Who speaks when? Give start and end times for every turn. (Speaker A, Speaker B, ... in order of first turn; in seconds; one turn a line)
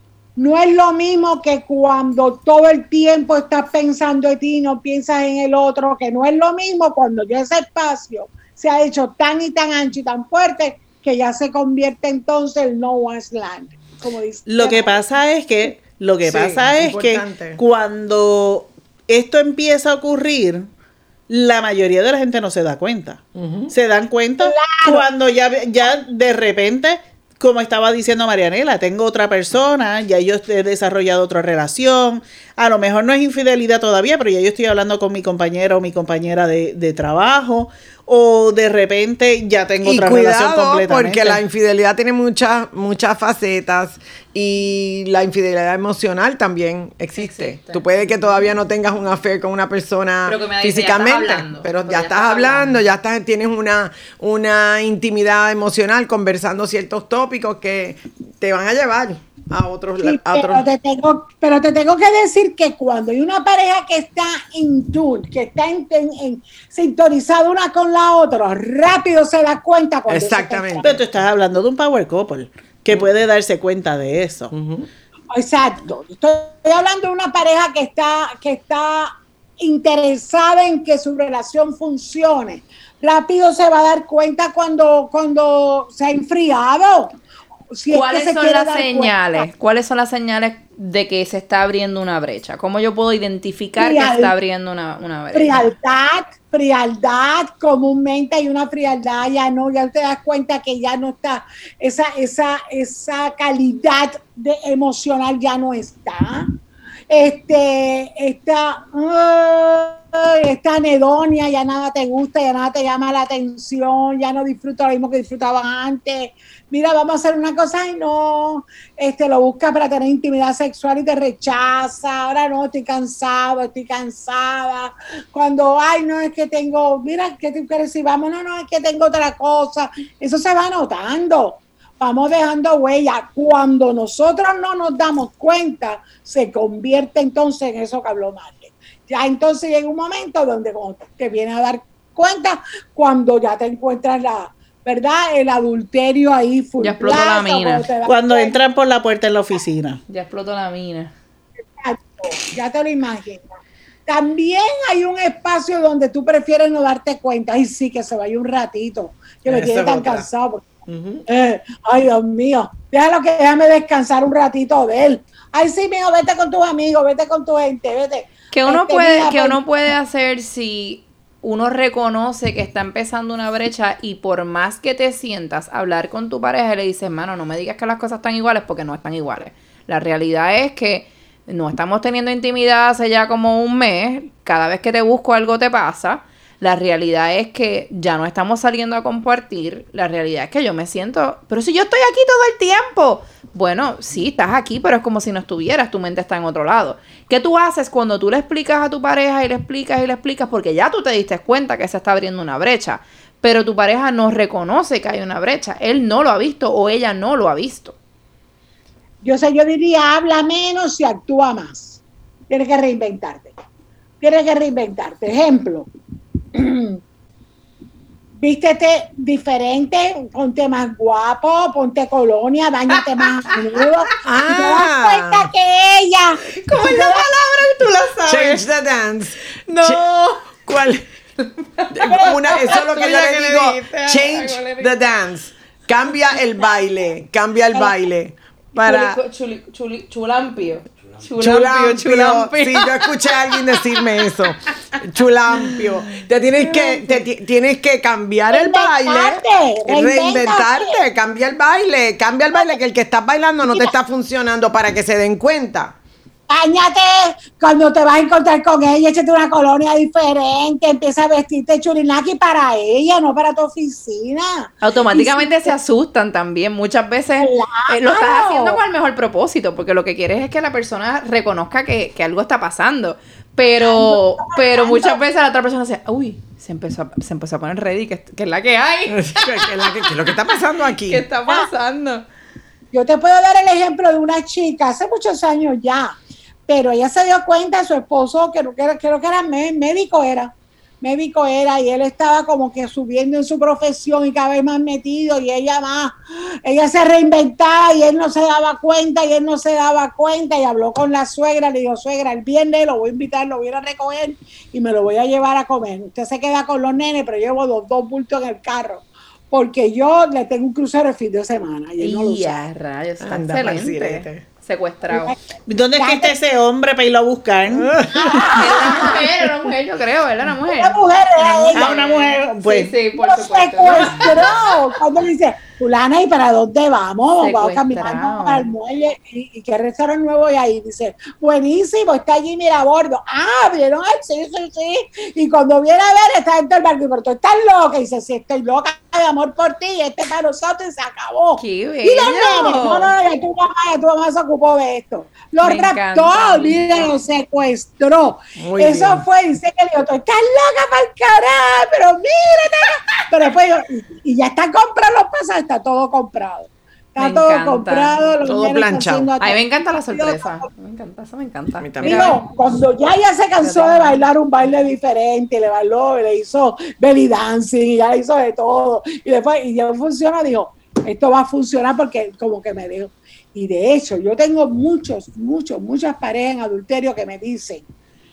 Speaker A: 0.4-15.0
Speaker B: 14.5-20.7
Speaker C: 16.2-17.6
Speaker B: 21.3-41.4
Speaker C: 23.3-23.7
Speaker A: 24.4-25.0
Speaker C: 39.8-60.6
Speaker D: 47.1-48.0
Speaker D: 50.2-52.8
Speaker A: 60.0-71.0
Speaker C: 70.1-71.0
Speaker B: 70.8-74.5
Speaker C: 74.5-74.9
Speaker A: 75.3-87.1
Speaker A: 87.7-89.4
Speaker D: 87.9-95.6
Speaker A: 93.8-94.3
Speaker A: 95.3-106.5
Speaker A: 107.1-148.5
Speaker D: 146.8-147.9
Speaker B: 148.0-150.0
Speaker D: 150.1-151.1
Speaker A: 151.8-153.5
Speaker A: 154.1-160.7
Speaker C: 159.5-160.3
Speaker C: 160.9-161.2
Speaker A: 161.3-169.6
Speaker D: 168.5-207.9
Speaker A: 209.2-213.5
Speaker A: 214.2-215.9
Speaker A: 216.5-217.0
Speaker A: 218.4-227.3
Speaker C: 224.2-225.5
Speaker D: 226.5-228.6
Speaker C: 228.2-231.0
Speaker D: 229.7-230.3
Speaker D: 231.4-234.9
Speaker C: 231.9-239.2
Speaker A: 232.1-232.7
Speaker D: 238.8-244.4
Speaker C: 241.4-255.9
Speaker D: 245.5-245.8
Speaker A: 246.6-247.2
Speaker A: 248.5-251.0
Speaker A: 256.5-265.7
Speaker D: 264.8-280.1
Speaker A: 267.4-268.8
Speaker A: 273.8-275.2
Speaker C: 279.1-281.2
Speaker D: 281.0-282.2
Speaker A: 282.9-312.6
Speaker D: 312.0-315.3
Speaker C: 313.2-314.4
Speaker B: 315.7-318.0
Speaker A: 316.0-316.3
Speaker C: 317.7-318.6
Speaker A: 318.1-319.2
Speaker D: 318.5-324.5
Speaker A: 320.7-322.0
Speaker B: 321.7-322.9
Speaker A: 323.2-359.6
Speaker D: 327.4-328.7
Speaker D: 341.6-343.1
Speaker D: 345.6-347.1
Speaker C: 348.6-349.2
Speaker D: 357.2-358.1
Speaker C: 358.4-359.3
Speaker D: 359.4-362.4
Speaker A: 360.1-360.6
Speaker C: 361.8-362.4
Speaker A: 362.0-377.9
Speaker D: 363.6-364.2